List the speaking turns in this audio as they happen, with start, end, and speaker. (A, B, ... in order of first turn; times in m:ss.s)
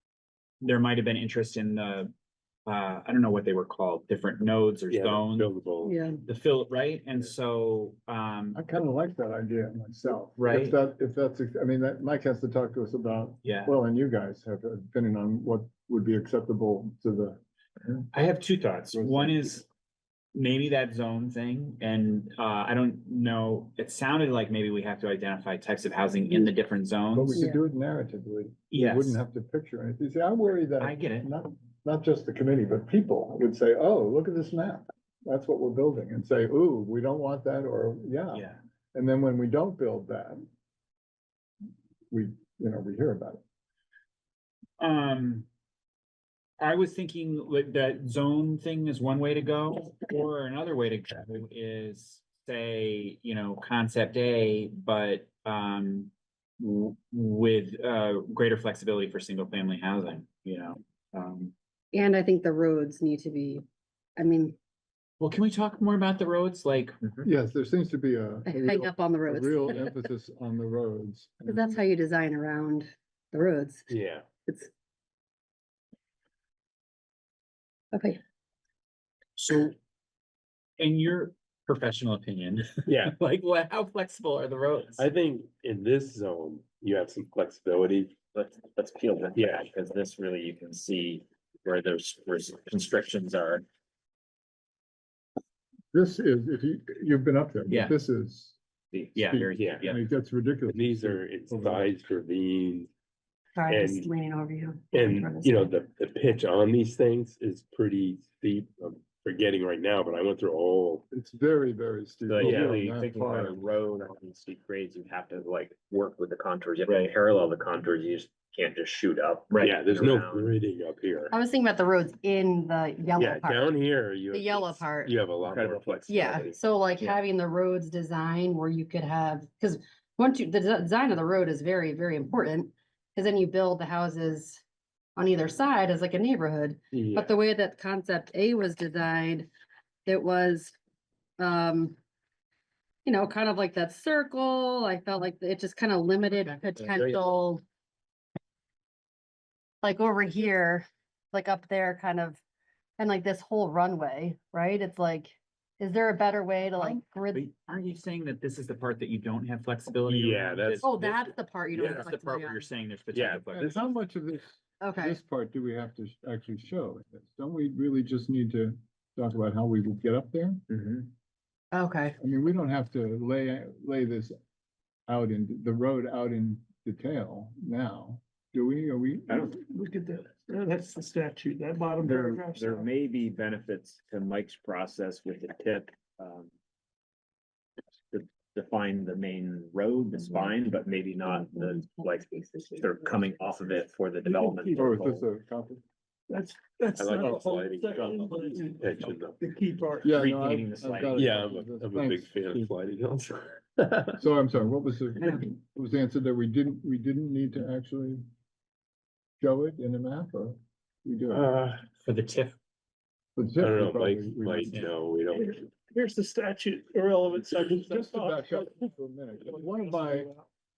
0:00.6-0:02.1 A
0:02.7-0:05.5 A
0:04.9-0:06.0 B
0:05.8-0:06.2 C
0:06.3-0:08.6 A
0:08.5-0:17.4 D
0:10.4-0:10.8 A
0:13.4-0:13.8 A
0:18.1-0:19.7 A
0:18.9-0:19.6 D
0:20.3-0:27.4 A
0:27.1-0:40.4 D
0:27.3-0:27.6 C
0:28.7-0:29.2 A
0:30.8-0:31.3 A
0:38.3-0:38.6 A
0:42.1-0:43.4 D
0:44.8-0:45.5 A
0:46.6-1:01.5 A
1:01.9-1:03.6 C
1:04.2-1:04.6 C
1:05.2-1:07.2 A
1:07.2-1:11.8 D
1:08.5-1:10.0 C
1:11.5-1:13.9 C
1:13.9-1:14.2 B
1:17.9-1:18.2 C
1:19.4-1:19.8 A
1:20.8-1:25.1 A
1:22.9-1:23.2 B
1:25.0-1:28.2 B
1:28.3-1:33.6 E
1:29.4-1:29.6 B
1:35.9-1:38.6 D
1:37.7-1:38.0 A
1:38.9-1:40.0 A
1:39.2-1:41.9 D
1:39.6-1:39.9 B
1:40.7-1:42.9 B
1:43.6-1:45.7 C
1:43.7-1:44.1 B
1:44.9-1:51.0 B
1:51.1-1:53.6 D
1:52.3-2:00.5 E
1:52.4-1:52.8 B
1:56.9-1:57.1 A
1:59.6-2:01.4 B
2:01.3-2:03.7 C
2:03.2-2:06.6 B
2:04.3-2:05.2 C
2:05.4-2:06.5 E
2:06.1-2:14.6 C
2:15.2-2:19.5 C
2:16.9-2:17.4 B
2:20.1-2:20.8 C
2:21.4-2:22.0 C
2:23.0-2:27.6 C
2:29.8-2:32.4 C
2:33.0-2:37.4 C
2:36.8-2:41.0 A
2:40.1-2:42.1 B
2:40.8-2:42.7 C
2:41.8-2:43.9 A
2:43.1-2:43.5 B
2:43.6-2:50.6 D
2:44.8-2:45.2 C
2:50.7-2:51.1 E
2:51.7-2:52.2 C
2:52.2-2:54.4 D
2:55.1-2:59.5 D
2:59.3-2:59.6 E
2:59.6-3:02.8 F
3:02.0-3:06.5 E
3:08.1-3:15.3 E
3:11.2-3:13.4 C
3:14.6-3:15.8 D
3:16.3-3:18.8 F
3:17.0-3:19.4 B
3:18.0-3:18.3 E
3:19.4-3:20.0 F
3:20.0-3:21.2 E
3:20.0-3:22.6 D
3:21.1-3:24.2 B
3:24.2-3:28.2 D
3:29.4-3:31.5 D
3:31.3-3:31.8 B
3:32.0-3:32.6 A
3:33.4-3:34.9 D
3:33.6-3:35.6 B
3:35.3-3:38.7 F
3:37.7-3:40.3 D
3:39.5-3:40.3 F